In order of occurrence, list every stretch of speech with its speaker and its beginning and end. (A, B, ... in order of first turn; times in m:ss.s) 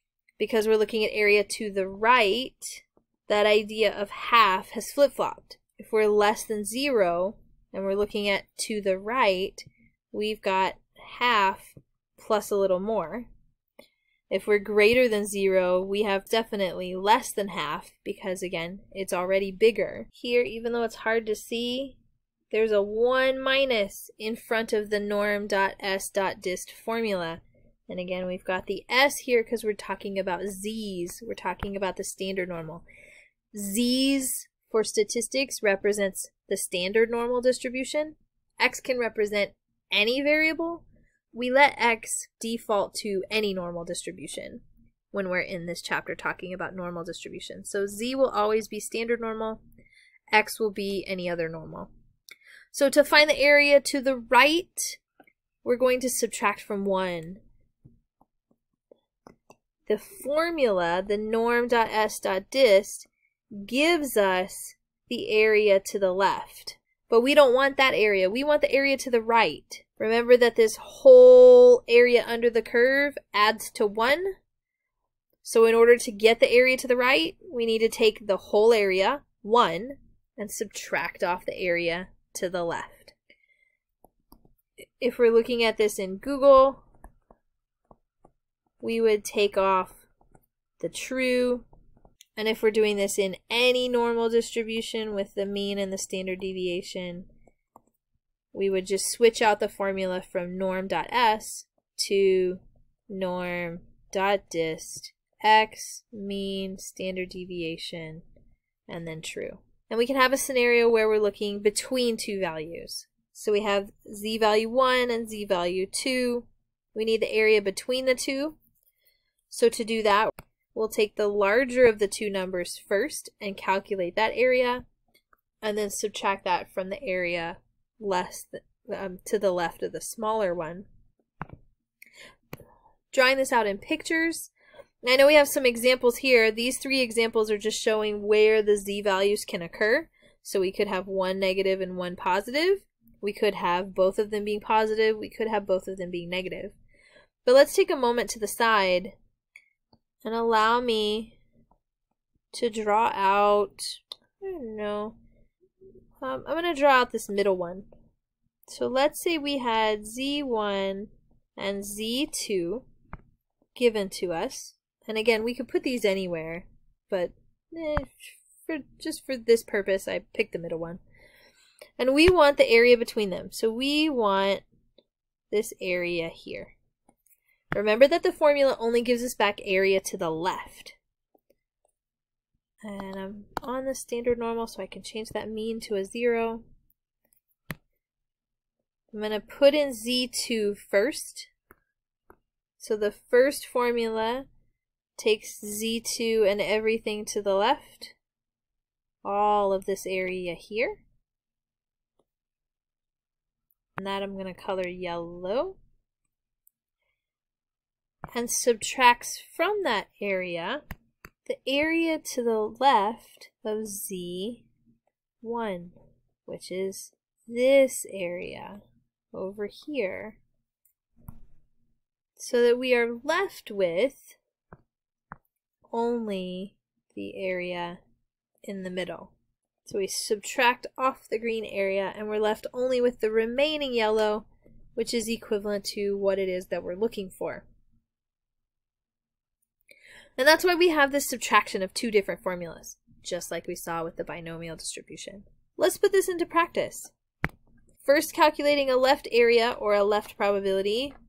0:00.4-0:13.3 A
0:14.3-0:22.0 A
0:22.5-0:32.8 A
0:33.5-0:49.6 A
0:50.3-0:51.9 A
0:52.7-0:55.0 A
0:55.6-0:57.4 A
0:59.9-1:14.4 A
1:15.4-1:23.1 A
1:25.0-1:26.8 A
1:28.8-1:30.1 A
1:30.8-1:31.7 A
1:32.4-1:37.3 A
1:38.5-1:48.2 A
1:48.9-1:58.6 A
1:59.5-2:04.8 A
2:05.6-2:10.9 A
2:13.1-2:14.5 A
2:15.0-2:26.8 A
2:27.4-2:29.2 A
2:30.2-2:31.4 A
2:32.5-2:35.2 A
2:36.2-2:37.9 A
2:38.7-2:42.9 A
2:43.8-2:51.0 A
2:52.0-2:54.6 A
2:55.5-2:56.8 A
2:57.7-3:01.0 A
3:02.8-3:06.6 A
3:09.1-3:11.5 A
3:12.8-3:14.5 A
3:15.2-3:18.2 A
3:19.2-3:21.0 A
3:24.0-3:25.8 A
3:28.3-3:30.8 A
3:31.4-3:34.7 A
3:35.4-3:36.0 A
3:36.5-3:38.8 A
3:39.3-3:40.4 A
3:42.4-3:44.4 A
3:45.9-3:48.0 A
3:48.6-3:49.3 A
3:49.8-3:57.7 A
4:00.4-4:07.1 A
4:08.0-4:11.1 A